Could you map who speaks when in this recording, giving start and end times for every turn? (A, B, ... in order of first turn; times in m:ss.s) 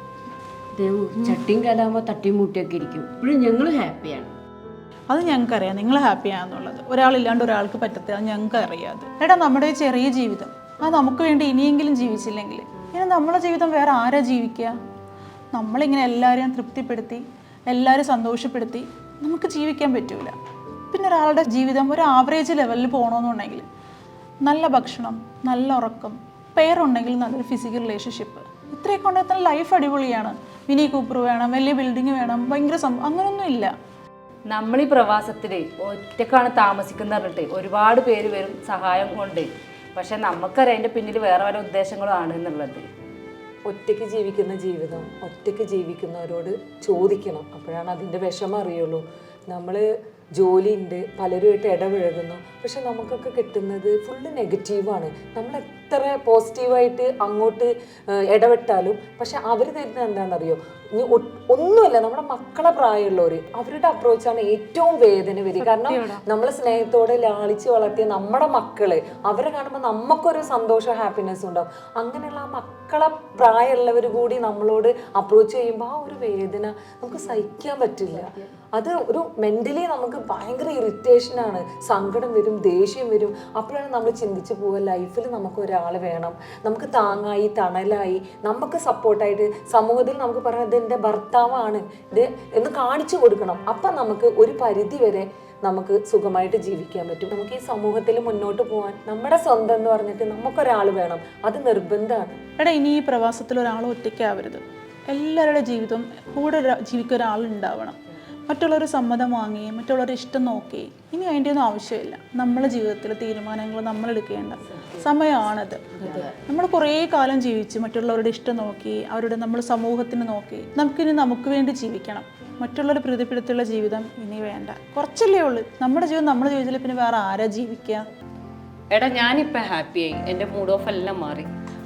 0:00.8-0:04.2 A
0:05.1-0:14.8 B
0:15.5-0:20.4 B
0:20.9-0:23.7 B
0:24.4-0:33.7 B
0:34.5-0:42.9 C
0:43.7-0:49.9 D
0:50.4-1:42.4 D
1:05.6-1:06.2 B
1:42.6-2:08.1 B
2:08.9-2:11.5 E